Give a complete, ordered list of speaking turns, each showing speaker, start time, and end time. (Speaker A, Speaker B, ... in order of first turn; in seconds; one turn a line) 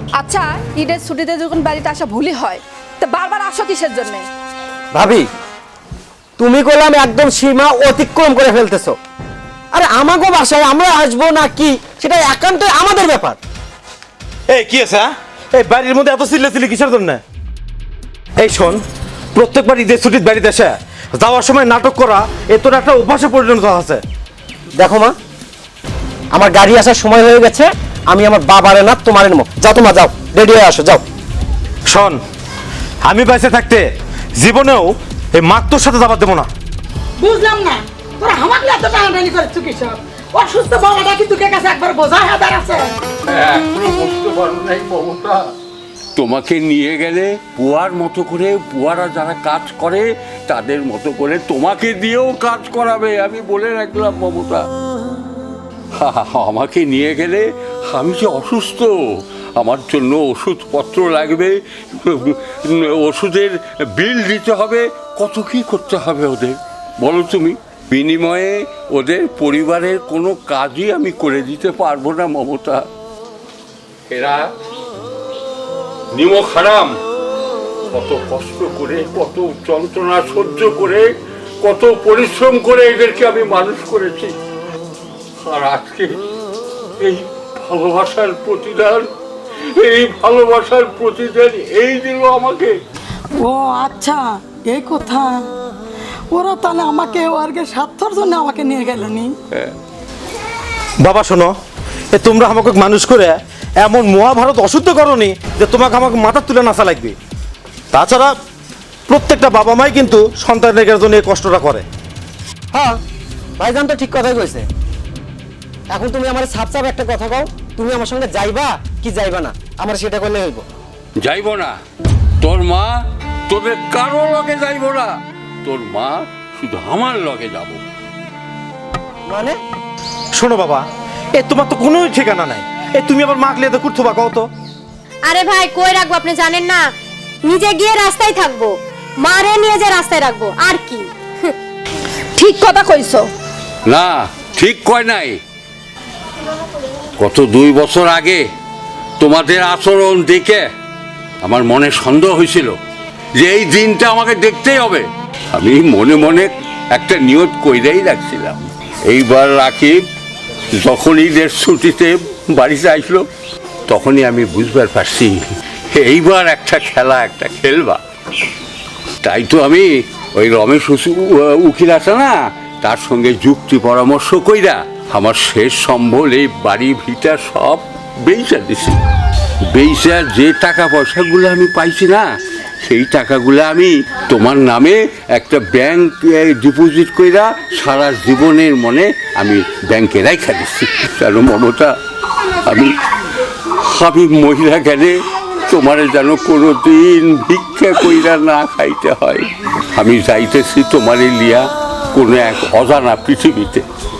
Speaker A: 0.2-4.2
Speaker B: 5.0-5.3
Speaker B: 6.4-9.0
Speaker B: 9.7-13.4
Speaker C: 14.5-17.2
Speaker C: 18.4-18.8
Speaker C: 19.3-24.0
Speaker B: 24.8-25.1
Speaker B: 26.3-31.0
Speaker C: 31.9-32.2
Speaker C: 33.0-36.5
Speaker D: 37.2-42.9
Speaker E: 43.3-45.5
Speaker E: 46.1-54.7
Speaker E: 56.0-59.0
Speaker E: 59.5-72.9
Speaker E: 74.1-74.5
Speaker E: 76.1-77.0
Speaker E: 77.9-81.1
Speaker E: 81.6-84.4
Speaker E: 85.4-86.2
Speaker E: 87.0-89.1
Speaker E: 89.7-92.8
Speaker D: 93.3-95.5
Speaker D: 96.3-99.3
Speaker C: 101.0-101.5
Speaker C: 102.1-107.2
Speaker C: 107.9-108.3
Speaker C: 109.1-111.8
Speaker B: 113.6-114.6
Speaker B: 115.9-120.6
Speaker E: 121.2-121.8
Speaker E: 122.4-122.9
Speaker E: 123.5-127.8
Speaker B: 129.3-129.6
Speaker C: 130.3-134.5
Speaker F: 135.2-136.9
Speaker F: 137.4-141.5
Speaker A: 142.3-143.3
Speaker E: 143.9-145.4
Speaker E: 147.2-148.4
Speaker E: 149.2-150.6
Speaker E: 151.4-152.8
Speaker E: 153.4-160.0
Speaker E: 160.8-163.2
Speaker E: 163.9-165.4
Speaker E: 165.9-168.0
Speaker E: 169.2-179.0
Speaker E: 179.7-182.2
Speaker E: 182.8-191.9
Speaker E: 192.7-193.0
Speaker E: 193.8-195.2
Speaker E: 195.7-203.8